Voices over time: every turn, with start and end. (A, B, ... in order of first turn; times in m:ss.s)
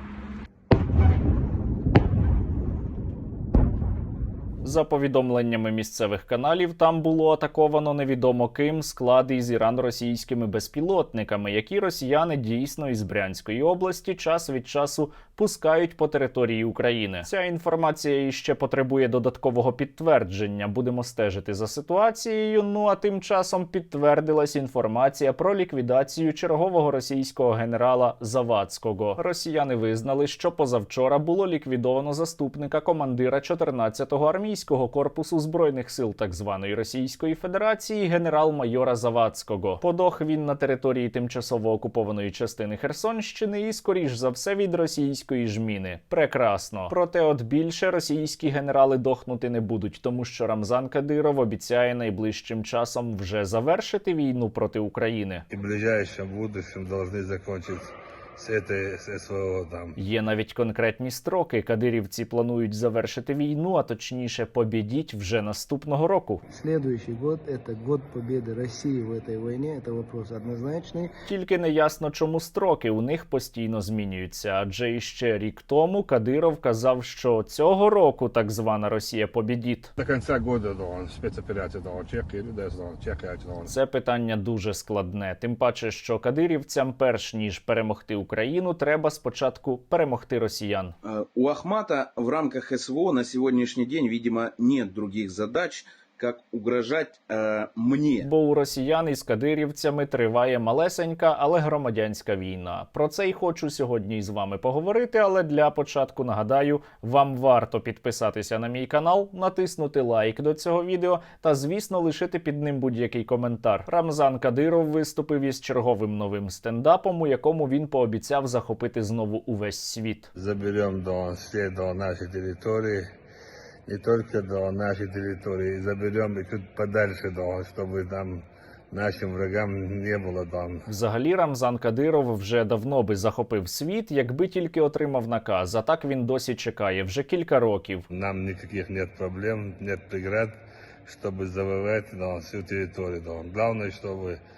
0:04.6-0:55.4 A
0:55.5-1:00.0 B
1:00.0-1:06.4 A
1:06.5-1:11.1 C
1:11.3-1:19.9 A
1:20.0-1:23.7 B
1:23.7-1:30.9 A
1:31.0-1:38.3 D
1:38.2-2:00.3 A
2:00.3-2:03.0 B
2:03.9-2:10.8 B
2:10.9-2:18.0 A
2:18.1-2:24.4 B